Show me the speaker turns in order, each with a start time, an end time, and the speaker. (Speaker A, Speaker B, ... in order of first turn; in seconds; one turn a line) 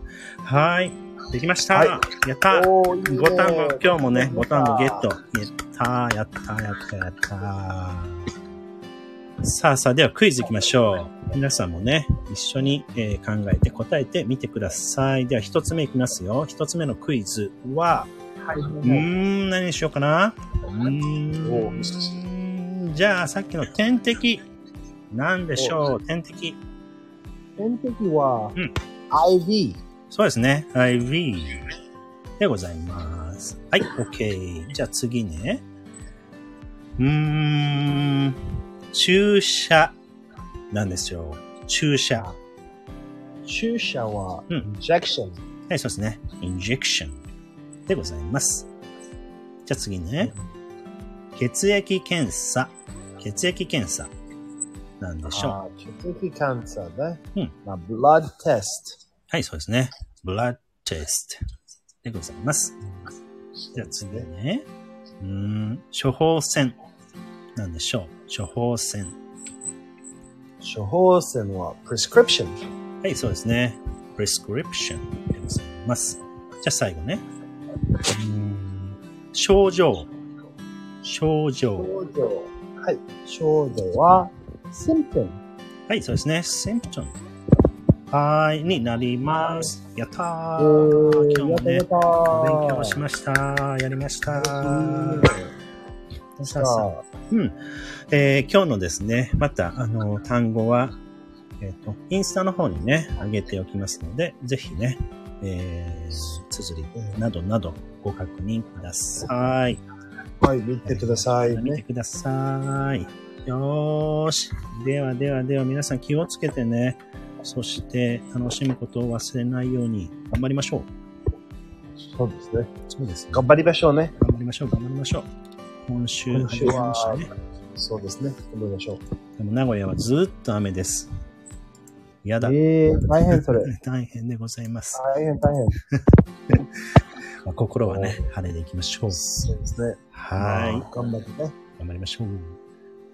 Speaker A: 0.4-8.2
Speaker B: 1.7-5.1
Speaker A: 9.4-18.1
Speaker B: 18.4-19.1
Speaker A: 18.8-24.4
Speaker B: 21.4-22.2
Speaker A: 25.1-26.6
Speaker B: 27.6-28.6
Speaker B: 29.1-29.8
Speaker A: 30.1-31.8
Speaker A: 32.4-35.6
Speaker A: 37.0-40.0
Speaker A: 40.7-42.3
Speaker B: 43.4-45.4
Speaker A: 45.7-47.2
Speaker A: 47.9-48.7
Speaker A: 49.6-50.3
Speaker A: 51.3-54.1
Speaker A: 55.0-55.6
Speaker B: 55.2-59.0
Speaker A: 59.3-61.4
Speaker A: 62.0-62.8
Speaker B: 63.7-64.3
Speaker A: 63.8-64.6
Speaker A: 65.2-66.8
Speaker A: 67.5-69.2
Speaker B: 70.6-72.6
Speaker A: 73.0-77.2
Speaker A: 78.0-80.1
Speaker A: 81.0-81.9
Speaker B: 81.8-85.4
Speaker A: 85.9-87.2
Speaker A: 88.1-95.3
Speaker B: 90.6-93.0
Speaker B: 94.3-95.5
Speaker A: 96.4-97.6
Speaker B: 96.4-97.0
Speaker A: 98.1-101.0
Speaker A: 101.6-109.8
Speaker B: 106.9-107.2
Speaker B: 110.4-111.8
Speaker A: 110.8-120.9
Speaker B: 122.1-122.7
Speaker A: 122.9-123.4
Speaker B: 123.3-124.1
Speaker A: 124.2-125.3
Speaker A: 125.9-127.3
Speaker B: 126.3-129.0
Speaker A: 129.4-131.1
Speaker A: 132.2-132.6
Speaker B: 132.4-133.7
Speaker A: 133.3-135.0
Speaker B: 134.9-135.8
Speaker A: 136.0-136.6
Speaker A: 137.4-139.5
Speaker B: 137.8-138.3
Speaker B: 139.2-141.5
Speaker A: 140.1-140.9
Speaker A: 141.8-142.6